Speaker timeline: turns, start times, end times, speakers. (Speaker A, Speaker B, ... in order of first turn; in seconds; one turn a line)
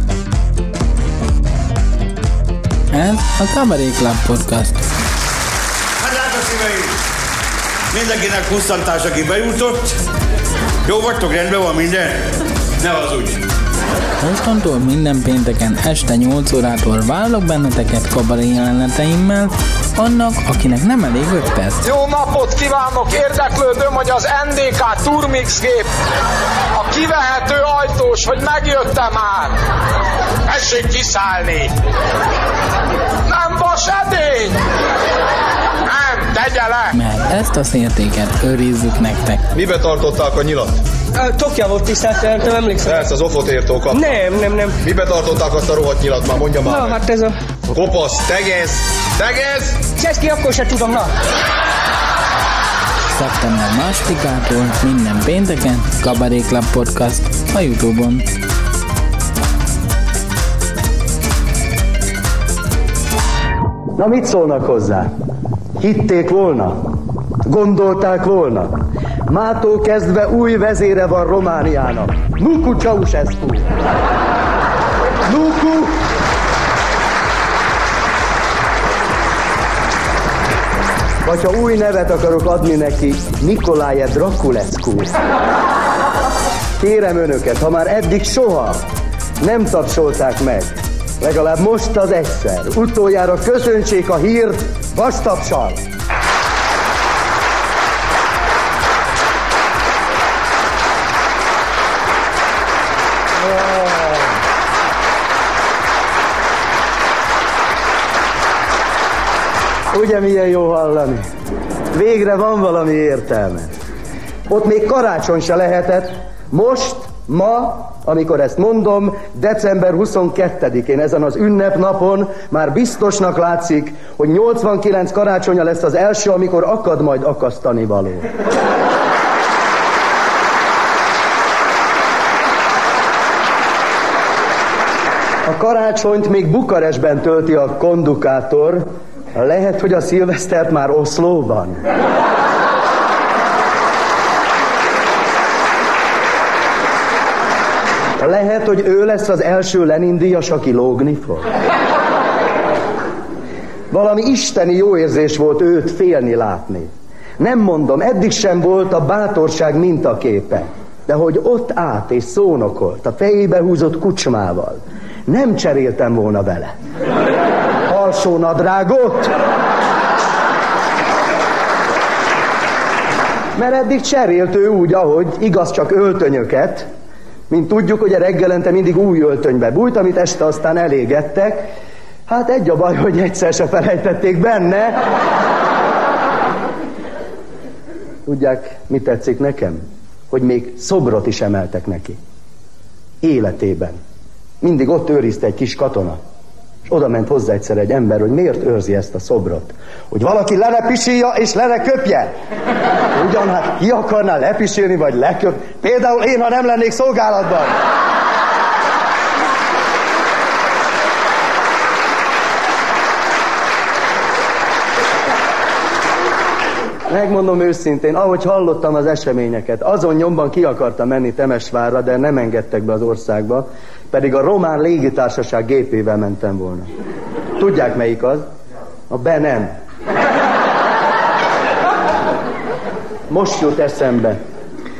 Speaker A: 2.9-4.8
Speaker B: 6.0-7.0
Speaker B: 7.9-10.0
Speaker B: 10.8-13.5
Speaker A: 14.2-21.8
Speaker C: 21.8-25.9
Speaker C: 26.8-29.6
Speaker C: 30.5-31.7
Speaker C: 33.3-34.6
Speaker C: 35.9-37.0
Speaker A: 37.0-39.4
Speaker D: 39.5-40.8
Speaker E: 41.1-43.1
Speaker D: 42.9-44.2
Speaker E: 43.9-44.8
Speaker D: 44.8-47.0
Speaker E: 46.6-47.4
Speaker D: 47.7-49.8
Speaker E: 50.0-51.1
Speaker A: 53.1-58.2
Speaker F: 64.0-65.1
Speaker F: 65.8-66.8
Speaker F: 67.5-68.8
Speaker F: 69.3-73.7
Speaker F: 75.3-76.0
Speaker F: 81.2-85.1
Speaker F: 86.8-88.8
Speaker F: 89.4-95.8
Speaker F: 103.4-104.3
Speaker F: 109.9-111.2
Speaker F: 111.9-113.7
Speaker F: 114.5-128.3
Speaker F: 135.4-141.8
Speaker F: 148.2-151.5
Speaker F: 153.9-166.7
Speaker F: 167.9-169.3
Speaker F: 173.6-176.9
Speaker F: 177.5-181.6
Speaker F: 182.3-185.0
Speaker F: 188.3-189.8
Speaker F: 190.3-192.2
Speaker F: 193.2-194.0
Speaker F: 194.6-196.2
Speaker F: 196.9-202.3
Speaker F: 203.2-207.8
Speaker F: 217.1-226.9
Speaker F: 227.6-228.4
Speaker F: 229.1-229.7
Speaker F: 233.3-234.4